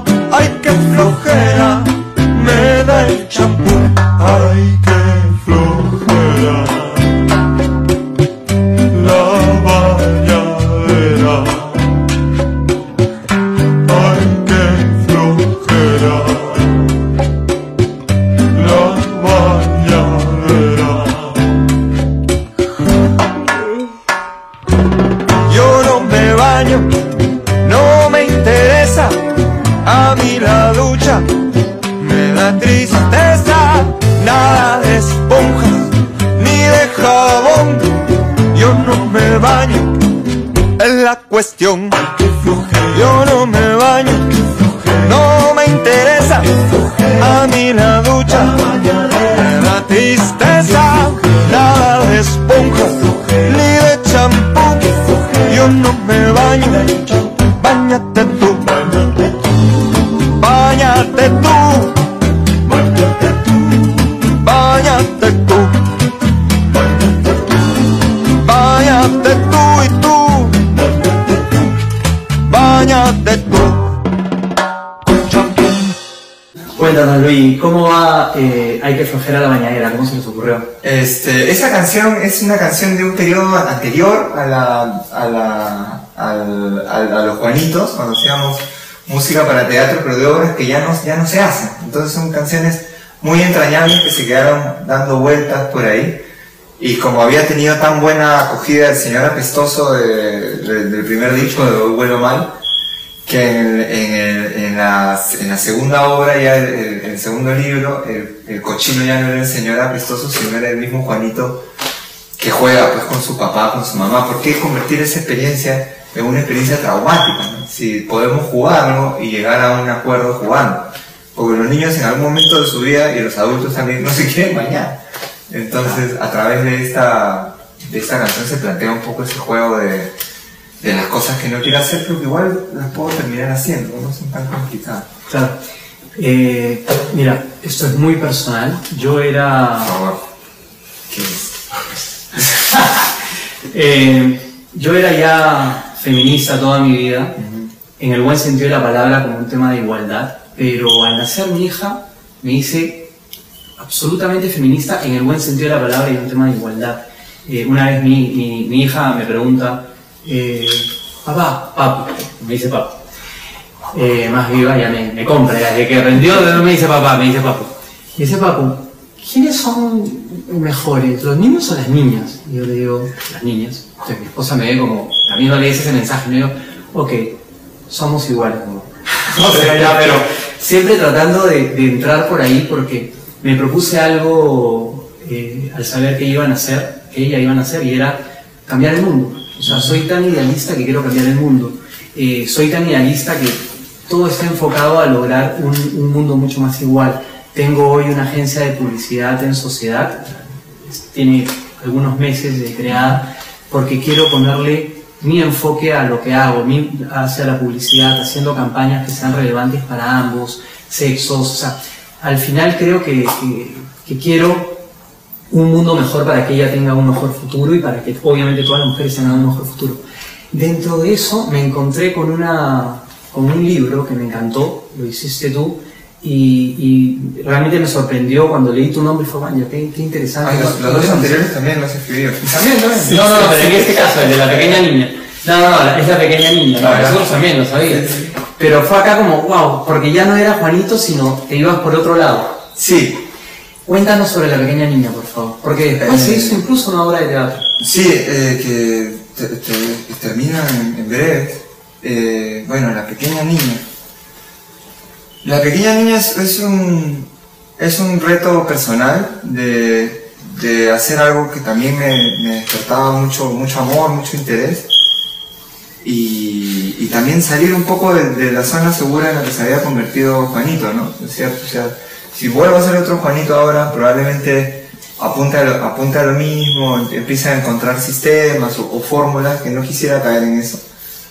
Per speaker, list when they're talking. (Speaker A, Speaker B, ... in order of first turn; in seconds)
Speaker A: 0.3-6.8, 8.9-11.6, 13.9-16.4, 18.6-21.1, 25.5-26.9, 27.6-29.2, 29.8-31.2, 32.0-37.9, 38.5-39.9, 40.8-42.0, 42.7-46.4, 47.2-48.6, 49.2-54.9, 55.5-58.8, 60.4-61.9, 64.4-65.7, 68.4-70.6, 72.5-73.8
Speaker B: 76.8-80.7, 135.3-135.6, 136.2-139.9, 142.4-143.1, 143.7-147.4, 148.0-153.1, 153.8-163.0, 163.9-214.8, 215.5-231.4, 232.5-242.6, 243.8-247.7
Speaker C: 80.8-96.2, 96.8-102.5, 103.2-111.6, 112.4-130.1, 130.8-135.1, 139.8-140.2, 141.1-142.4, 147.4-147.7, 179.4-180.2, 189.6-190.0, 202.9-203.2, 230.4-234.8, 236.8-238.3, 242.8-243.2, 246.0-246.6, 247.8-253.8, 255.4-264.9, 266.0-280.8